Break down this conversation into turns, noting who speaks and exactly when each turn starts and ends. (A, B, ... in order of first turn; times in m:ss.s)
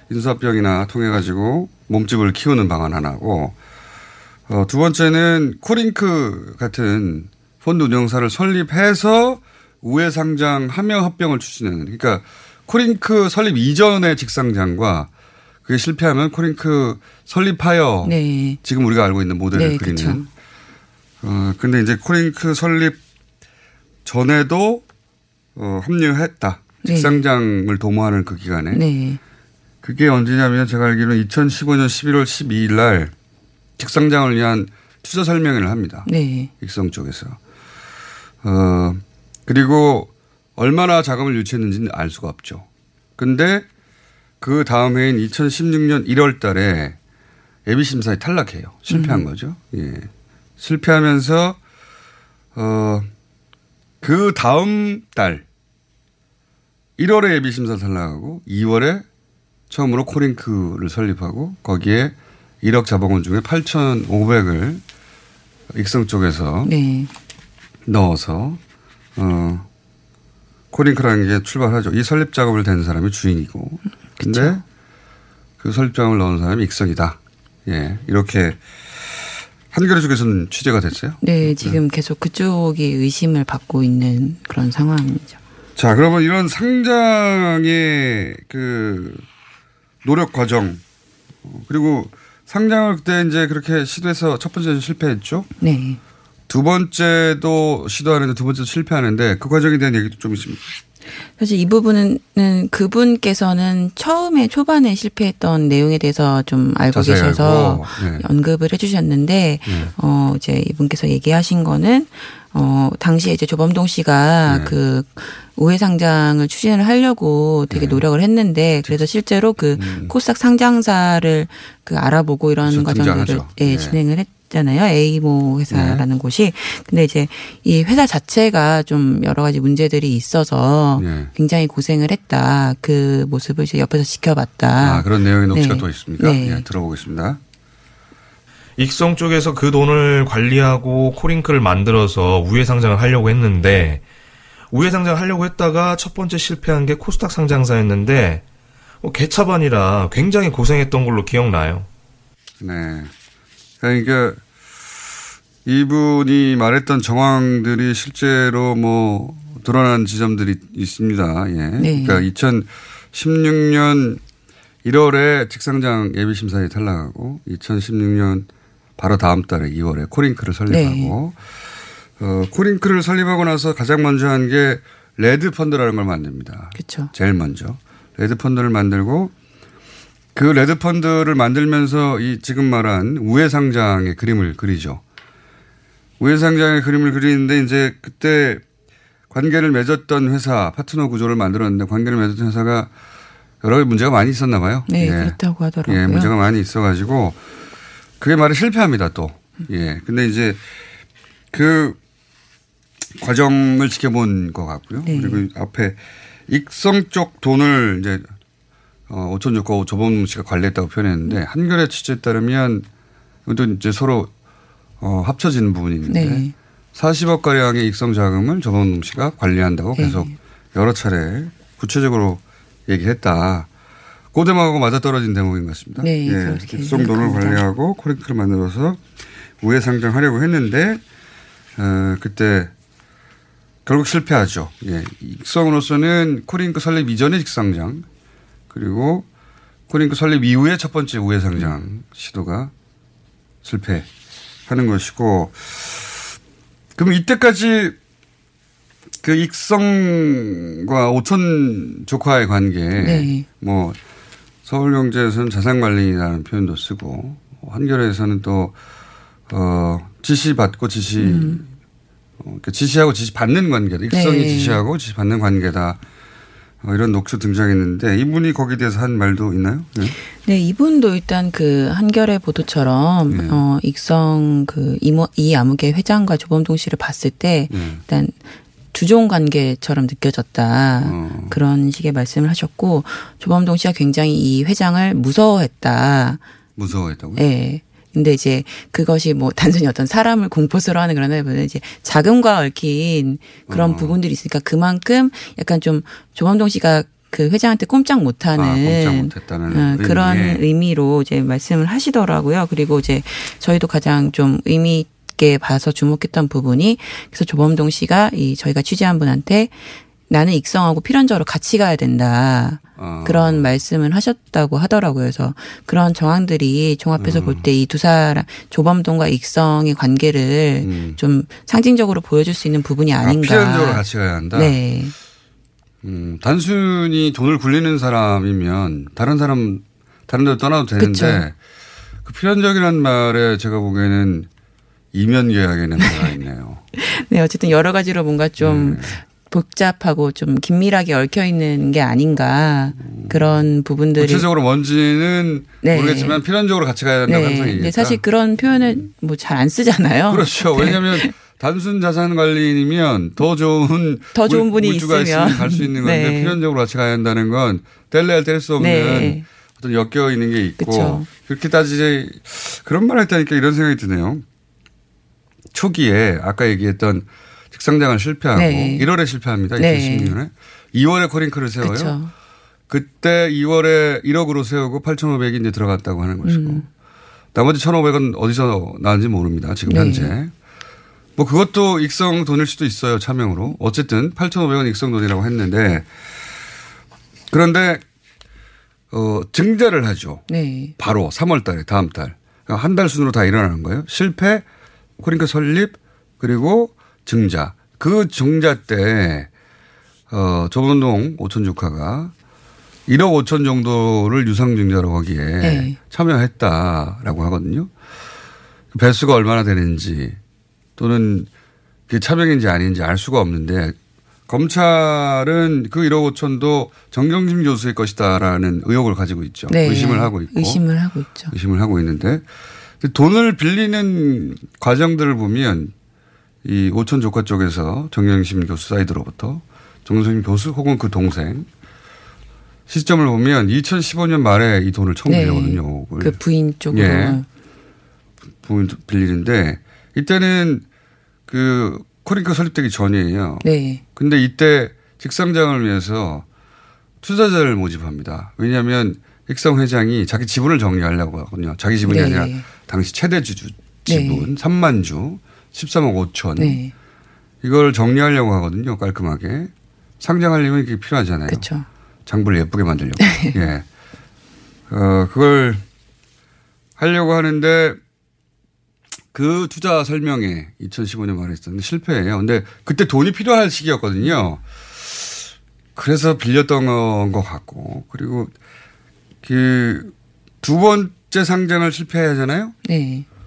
0:00.1-0:03.6 A
0:04.5-0:15.1 A
0:15.6-0:20.3 A
0:18.0-0:18.6 B
0:19.5-0:20.2 B
0:21.2-0:23.0 A
0:24.0-0:24.8 A
0:25.5-0:28.8 A
0:26.8-0:27.2 B
0:28.7-0:29.2 B
0:29.8-0:33.1 A
0:33.8-0:36.1 A
0:36.0-0:36.5 B
0:36.6-0:37.4 A
0:38.4-0:42.6 A
0:43.2-0:43.6 A
0:44.4-0:47.0 A
0:47.6-0:51.6 A
0:48.9-0:49.2 B
0:52.5-0:53.1 A
0:54.0-0:55.4 A
0:57.0-0:59.0 A
0:59.7-1:04.8 A
1:05.7-1:06.7 A
1:06.6-1:07.1 B
1:07.8-1:08.6 A
1:09.2-1:09.7 A
1:10.7-1:14.6 A
1:14.2-1:14.6 B
1:15.6-1:21.8 A
1:21.2-1:25.4 B
1:25.8-1:29.2 A
1:30.0-1:30.8 A
1:31.4-1:35.5 A
1:35.6-1:36.0 B
1:36.5-1:40.7 A
1:41.4-2:16.6 B
1:46.9-1:48.2 A
1:49.6-1:49.9 A
1:54.4-1:54.7 A
1:57.7-1:58.0 A
1:59.7-2:00.1 A
2:02.6-2:04.0 A
2:05.7-2:06.0 A
2:11.0-2:11.3 A
2:14.8-2:17.4 A
2:18.8-2:24.0 C
2:24.7-2:28.4 C
2:29.0-2:31.9 C
2:32.6-2:33.1 A
2:33.8-2:34.4 A
2:35.6-2:44.2 A
2:41.8-2:42.2 B
2:44.8-2:51.4 A
2:50.7-2:51.1 B
2:52.2-2:59.3 A
2:56.7-2:57.1 B
3:00.3-3:05.0 A
3:06.2-3:08.6 A
3:09.3-3:12.9 A
3:13.6-3:17.4 A
3:14.9-3:16.3 B
3:18.2-3:20.6 A
3:21.5-3:22.0 A
3:23.2-3:28.2 A
3:25.0-3:25.4 B
3:29.1-3:32.8 A
3:33.4-3:34.3 A
3:35.0-3:43.7 A
3:36.1-3:36.5 B
3:40.0-3:40.3 B
3:44.3-3:49.0 A
3:46.0-3:47.6 B
3:49.6-3:51.0 A
3:51.8-3:52.7 A
3:53.8-3:58.0 A
3:58.7-3:59.2 A
3:59.9-4:02.7 A
4:03.6-4:04.1 A
4:04.7-4:06.3 A
4:07.0-4:08.0 A
4:09.2-4:14.0 A
4:13.0-4:13.4 B
4:14.6-4:18.8 A
4:19.5-4:21.7 A
4:21.2-4:21.6 B
4:22.4-4:26.0 A
4:24.1-4:24.8 B
4:26.8-4:30.2 A
4:30.4-4:46.4 B
4:33.3-4:33.6 A
4:37.7-4:38.0 A
4:41.0-4:41.6 A
4:46.8-4:47.4 A
4:47.4-5:25.1 B
4:53.7-4:54.2 A
4:58.5-5:00.6 A
5:13.0-5:13.7 A
5:17.2-5:17.7 A
5:20.8-5:21.2 A
5:23.2-5:24.8 A
5:26.0-5:31.5 A
5:31.0-5:31.4 B
5:32.2-5:34.5 A
5:35.1-5:36.8 A
5:36.0-5:36.3 B
5:36.9-5:44.5 B
5:38.6-5:39.2 A
5:43.0-5:43.6 A
5:44.2-5:49.1 A
5:45.8-5:46.4 B
5:47.2-5:51.3 B
5:50.3-6:04.4 A
5:54.3-5:56.6 B
5:58.8-5:59.4 B
6:00.8-6:01.3 B
6:05.7-6:12.1 A
6:08.5-6:09.1 B
6:09.7-6:10.4 B
6:11.8-6:12.3 B
6:12.9-6:16.8 A
6:16.4-6:16.8 B
6:17.5-6:20.5 A
6:19.8-6:20.3 B
6:21.4-6:26.1 A
6:27.5-6:28.0 A
6:29.1-6:30.4 A
6:30.5-6:30.9 B
6:31.0-6:34.6 A
6:35.2-6:39.5 A
6:40.3-6:42.3 A
6:43.1-6:47.9 A
6:45.6-6:46.0 B
6:48.9-6:50.4 A
6:51.0-6:51.5 A
6:52.1-6:54.0 A
6:54.5-7:00.8 A
6:59.7-7:01.5 B
7:01.5-7:02.4 A
7:03.0-7:05.9 A
7:06.6-7:11.7 A
7:12.9-7:16.4 A
7:15.2-7:17.4 B
7:16.9-7:17.4 A
7:18.6-7:20.8 A
7:21.5-7:26.4 A
7:23.6-7:24.0 B
7:27.2-7:36.8 A
7:32.0-7:32.6 B
7:34.0-7:34.5 B
7:36.6-7:36.9 B
7:37.6-7:41.7 A
7:41.5-7:41.8 B
7:42.2-7:43.8 A
7:43.2-7:43.5 B
7:44.9-7:45.8 A
7:47.0-7:48.0 A
7:49.3-7:58.5 A
7:59.4-8:02.7 A
8:02.8-8:03.2 B